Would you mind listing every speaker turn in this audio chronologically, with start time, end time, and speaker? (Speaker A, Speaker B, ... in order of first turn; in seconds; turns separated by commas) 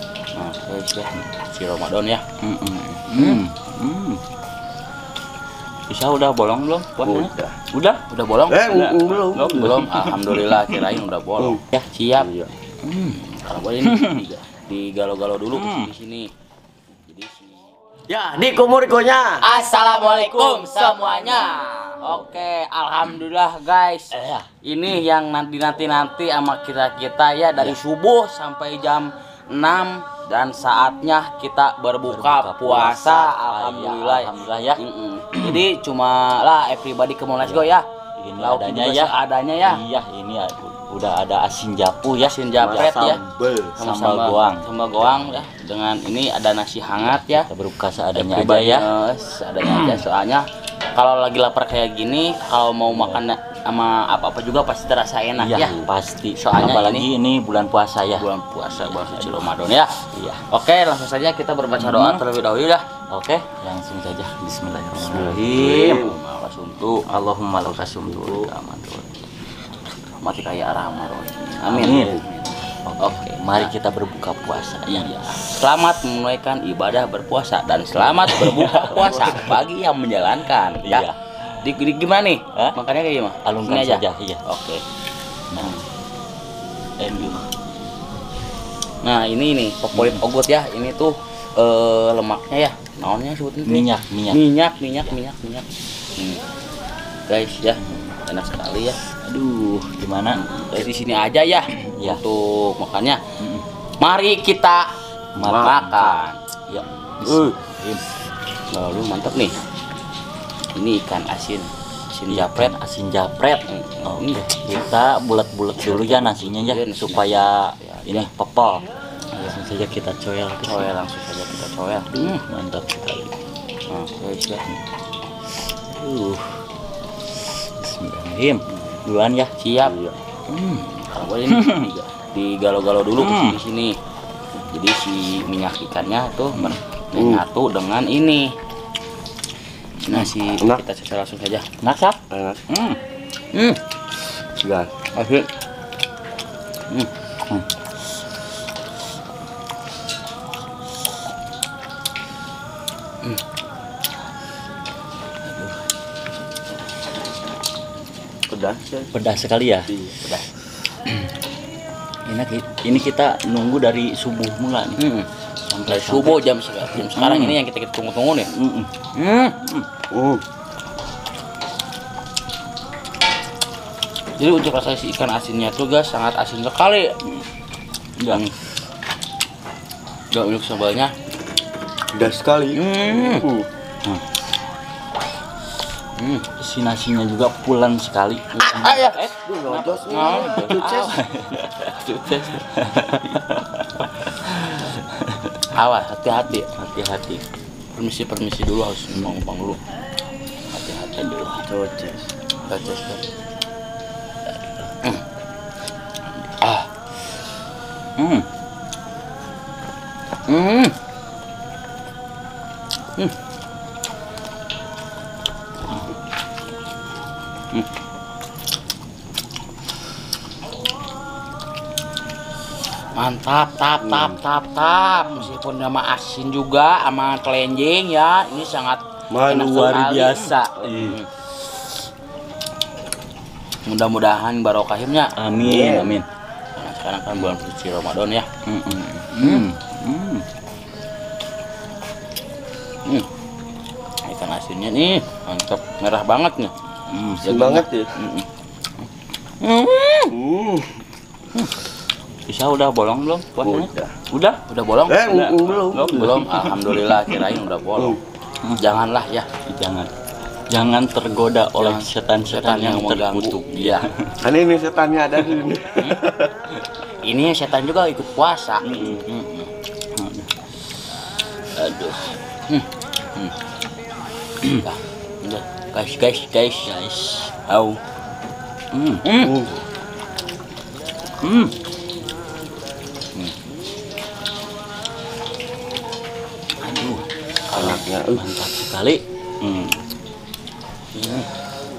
Speaker A: 0.3-2.2, Speaker B: 2.4-4.2, Speaker A: 3.1-3.4, Speaker B: 5.9-8.0, Speaker C: 7.0-7.6, Speaker A: 8.1-12.3, Speaker C: 8.5-9.9, Speaker B: 9.3-10.9, Speaker C: 12.2-12.5, Speaker B: 12.8-13.2, Speaker A: 13.2-16.3, Speaker B: 13.8-14.2, Speaker B: 15.6-15.9, Speaker A: 17.1-17.7, Speaker C: 18.1-19.4, Speaker A: 19.4-37.9, Speaker B: 24.1-24.5, Speaker B: 32.0-34.8, Speaker B: 35.3-35.6, Speaker B: 37.4-43.2, Speaker A: 38.4-39.8, Speaker A: 42.2-43.2, Speaker C: 42.6-43.8, Speaker B: 43.8-44.6, Speaker A: 43.8-47.5, Speaker B: 47.0-48.9, Speaker A: 48.1-57.0, Speaker B: 52.9-53.2, Speaker B: 55.4-60.4, Speaker A: 58.1-59.9, Speaker A: 60.5-62.8, Speaker B: 61.8-62.2, Speaker B: 63.1-66.0, Speaker A: 65.1-67.1, Speaker C: 65.3-66.2, Speaker B: 67.0-68.6, Speaker A: 67.6-69.1, Speaker A: 70.2-72.4, Speaker B: 71.7-72.2, Speaker C: 71.9-72.2, Speaker B: 72.8-75.3, Speaker A: 73.0-73.7, Speaker A: 74.9-84.8, Speaker B: 78.2-79.6, Speaker B: 80.6-81.6, Speaker B: 83.4-84.4, Speaker B: 85.5-85.8, Speaker B: 87.0-87.5, Speaker A: 89.0-96.4, Speaker B: 89.9-90.2, Speaker B: 93.6-94.4, Speaker A: 97.3-99.0, Speaker B: 97.8-98.2, Speaker B: 99.2-100.4, Speaker A: 100.3-103.2, Speaker B: 101.8-102.2, Speaker A: 104.0-104.9, Speaker B: 105.3-108.0, Speaker A: 105.4-107.5, Speaker C: 105.4-105.8, Speaker A: 108.7-109.5, Speaker A: 110.8-112.7, Speaker B: 112.3-118.8, Speaker A: 113.7-114.4, Speaker A: 115.8-118.3, Speaker B: 119.4-121.0, Speaker A: 120.6-122.4, Speaker B: 122.1-123.3, Speaker A: 123.9-124.7, Speaker B: 125.9-126.6, Speaker B: 127.4-129.5, Speaker A: 129.6-129.9, Speaker C: 129.8-130.2, Speaker B: 130.5-130.9, Speaker A: 130.8-133.9, Speaker B: 131.5-131.8, Speaker B: 133.2-133.6, Speaker A: 134.7-138.5, Speaker B: 136.5-136.8, Speaker C: 137.2-137.4, Speaker A: 140.1-141.7, Speaker C: 140.6-140.8, Speaker B: 141.8-142.2, Speaker C: 142.3-142.6, Speaker B: 142.7-143.0, Speaker A: 143.5-143.8, Speaker C: 144.6-144.9, Speaker A: 145.1-145.5, Speaker B: 155.5-155.8, Speaker C: 158.5-159.1, Speaker B: 159.1-159.9, Speaker C: 159.9-160.2, Speaker A: 160.2-160.4, Speaker B: 162.2-165.0, Speaker A: 165.0-165.3, Speaker B: 165.7-166.4, Speaker A: 165.9-168.5, Speaker B: 166.9-167.6, Speaker B: 168.5-168.9, Speaker A: 169.1-169.5, Speaker B: 169.6-169.9, Speaker C: 170.1-170.4, Speaker A: 174.4-177.1, Speaker A: 180.3-181.1, Speaker C: 182.1-183.7, Speaker A: 182.7-183.5, Speaker A: 186.2-186.5, Speaker B: 186.6-191.9, Speaker A: 188.5-189.3, Speaker C: 189.4-191.2, Speaker A: 190.1-191.2, Speaker A: 191.8-192.6, Speaker B: 192.4-195.6, Speaker A: 195.7-196.7, Speaker B: 196.7-197.4, Speaker A: 197.9-199.8, Speaker A: 200.7-201.3, Speaker B: 201.2-201.6, Speaker C: 201.6-202.3, Speaker A: 202.6-203.2, Speaker A: 206.6-206.9, Speaker B: 208.2-208.4, Speaker A: 210.5-210.9, Speaker A: 223.1-231.3, Speaker C: 224.0-224.3, Speaker C: 229.3-229.8, Speaker B: 229.5-231.2, Speaker A: 233.8-235.3, Speaker B: 235.3-236.2, Speaker C: 235.6-236.1, Speaker A: 236.8-239.7, Speaker B: 238.7-240.4, Speaker A: 244.2-246.7, Speaker B: 247.1-247.8, Speaker C: 247.4-248.1, Speaker A: 247.5-248.5, Speaker A: 249.6-250.3, Speaker C: 250.3-251.0, Speaker B: 252.5-254.6, Speaker C: 253.6-254.1, Speaker A: 254.7-258.2, Speaker C: 255.1-256.4, Speaker B: 255.6-257.6, Speaker A: 258.7-259.5, Speaker B: 259.7-260.1, Speaker B: 260.7-264.3, Speaker A: 261.8-264.0, Speaker C: 264.4-266.5, Speaker A: 267.2-269.2, Speaker B: 268.8-270.5, Speaker B: 271.8-272.3, Speaker A: 272.7-273.5, Speaker A: 274.7-276.9, Speaker B: 276.9-277.5, Speaker A: 277.7-278.0, Speaker B: 278.9-279.2, Speaker A: 279.2-279.5, Speaker C: 279.4-279.7, Speaker B: 281.4-281.7, Speaker B: 286.8-289.9, Speaker C: 287.7-288.6, Speaker A: 291.1-291.5